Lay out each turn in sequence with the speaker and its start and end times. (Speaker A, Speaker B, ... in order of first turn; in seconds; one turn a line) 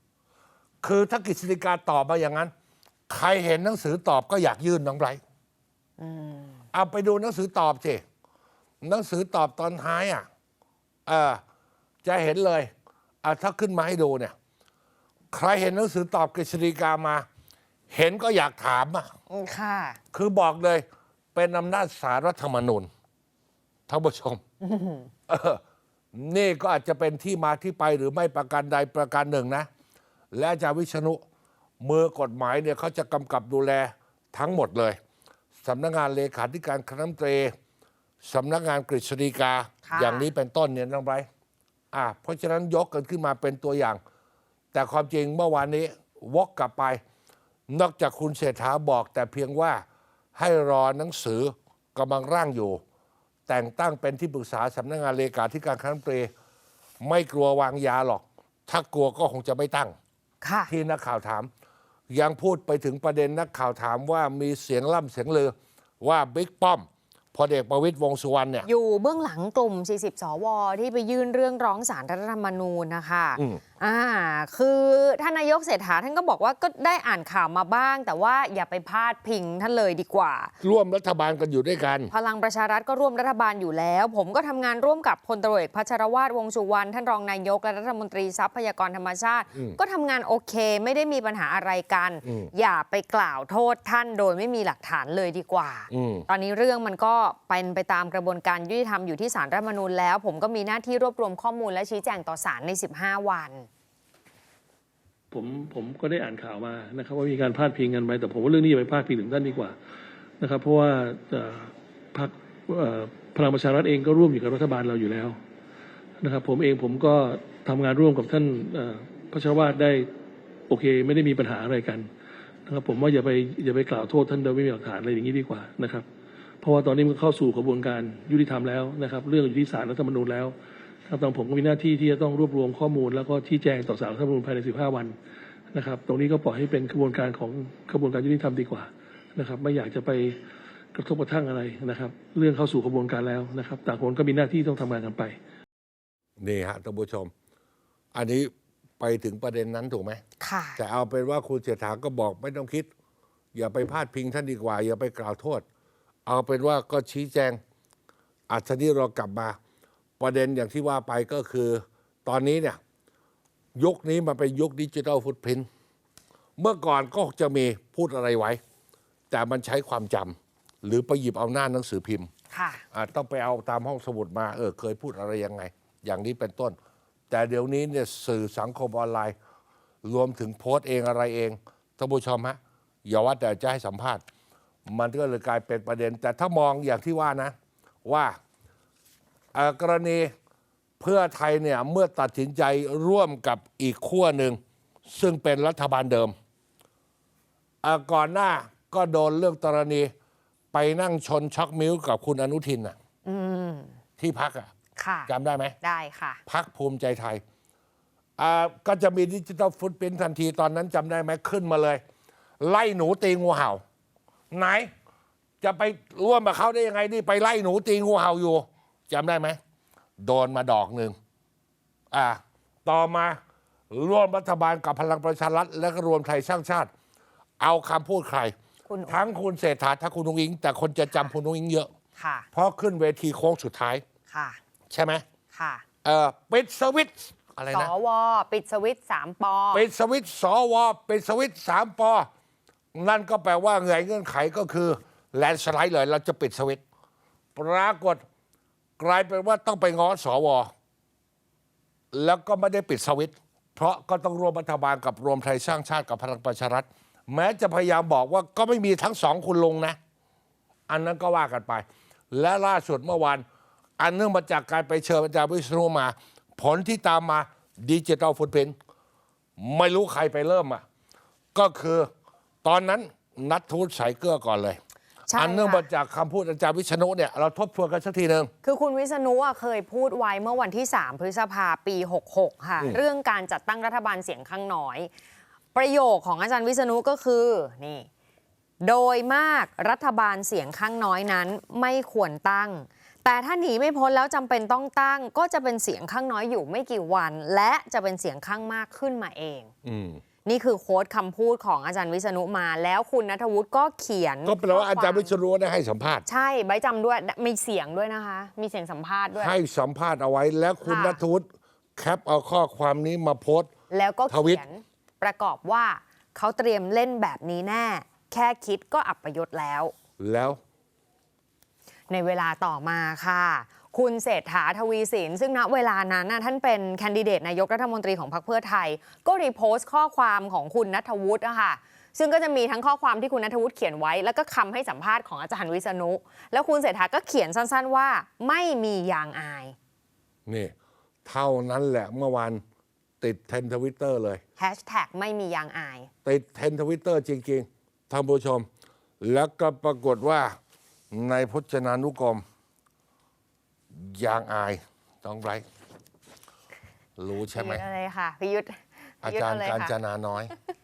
Speaker A: 0.8-2.5
Speaker A: 3.1-5.2
Speaker B: 6.0-6.6
Speaker A: 6.7-8.0
Speaker A: 8.8-10.3
Speaker A: 11.1-11.4
Speaker A: 12.0-12.7
Speaker A: 13.2-14.3
Speaker A: 15.3-17.2
Speaker A: 17.9-19.1
Speaker B: 19.3-20.0
Speaker A: 20.1-22.9
Speaker A: 23.9-24.4
Speaker B: 24.6-25.1
Speaker A: 25.3-25.6
Speaker A: 26.1-29.7
Speaker A: 30.3-31.2
Speaker A: 31.8-35.0
Speaker A: 35.6-37.5
Speaker A: 38.2-41.3
Speaker B: 39.9-40.3
Speaker A: 41.9-44.0
Speaker A: 44.7-47.0
Speaker A: 47.7-49.8
Speaker A: 50.3-52.8
Speaker A: 53.5-56.3
Speaker A: 57.0-60.0
Speaker B: 60.4-60.7
Speaker A: 60.7-61.5
Speaker A: 62.1-68.7
Speaker B: 68.6-80.5
Speaker A: 80.6-82.1
Speaker B: 82.1-103.7
Speaker A: 92.2-92.5
Speaker A: 95.9-96.3
Speaker C: 105.3-109.7
Speaker C: 110.4-115.4
Speaker C: 116.2-120.1
Speaker C: 120.7-122.1
Speaker C: 122.7-126.0
Speaker C: 126.6-130.5
Speaker C: 131.1-135.2
Speaker C: 135.7-140.4
Speaker C: 140.9-145.4
Speaker A: 146.4-147.3
Speaker A: 148.1-150.2
Speaker B: 150.4-150.8
Speaker A: 150.8-152.9
Speaker A: 153.5-155.6
Speaker A: 156.2-157.6
Speaker A: 158.5-159.6
Speaker A: 160.2-162.8
Speaker A: 163.8-165.7
Speaker A: 166.6-168.6
Speaker A: 169.3-172.3
Speaker B: 172.5-172.8
Speaker A: 172.9-176.8
Speaker A: 177.3-179.3
Speaker A: 180.0-184.2
Speaker A: 184.9-187.5
Speaker A: 188.0-188.4
Speaker A: 189.5-190.3
Speaker A: 191.0-196.3
Speaker A: 197.8-200.1
Speaker A: 200.7-202.9
Speaker B: 203.2-204.0
Speaker A: 204.2-204.7
Speaker B: 205.0-206.4
Speaker A: 205.3-205.7
Speaker A: 206.5-207.4
Speaker A: 208.4-212.0
Speaker A: 212.6-213.8
Speaker A: 214.5-214.9
Speaker A: 215.6-219.6
Speaker A: 220.2-221.2
Speaker A: 222.1-223.4
Speaker A: 223.9-226.9
Speaker A: 227.6-228.5
Speaker B: 228.9-229.2
Speaker A: 229.1-231.9
Speaker B: 232.2-232.5
Speaker A: 232.5-234.0
Speaker B: 234.3-234.6
Speaker A: 234.9-235.2
Speaker B: 235.5-235.8
Speaker A: 236.0-237.9
Speaker B: 237.7-239.8
Speaker A: 239.7-242.3
Speaker A: 242.9-246.8
Speaker A: 247.5-248.2
Speaker A: 249.0-250.7
Speaker A: 252.1-260.0
Speaker A: 260.9-263.4
Speaker A: 264.0-268.7
Speaker A: 269.6-270.8
Speaker A: 271.5-272.1
Speaker A: 272.6-274.8
Speaker B: 275.3-275.8
Speaker A: 275.4-278.5
Speaker B: 278.6-285.1
Speaker B: 285.7-288.1
Speaker B: 288.8-299.7
Speaker A: 299.8-300.2
Speaker B: 300.4-305.3
Speaker A: 304.4-306.2
Speaker B: 306.2-309.5
Speaker A: 309.3-311.4
Speaker B: 310.8-311.2
Speaker A: 312.0-313.7
Speaker B: 313.9-319.9
Speaker A: 314.3-314.6
Speaker A: 320.2-320.6
Speaker B: 322.1-339.8
Speaker A: 340.5-340.7
Speaker A: 341.2-342.6
Speaker A: 343.2-344.4
Speaker B: 344.6-346.1
Speaker A: 346.2-348.7
Speaker A: 349.2-350.5
Speaker A: 351.1-352.4
Speaker A: 353.9-355.6
Speaker A: 357.2-357.8
Speaker B: 357.5-359.9
Speaker A: 359.2-360.5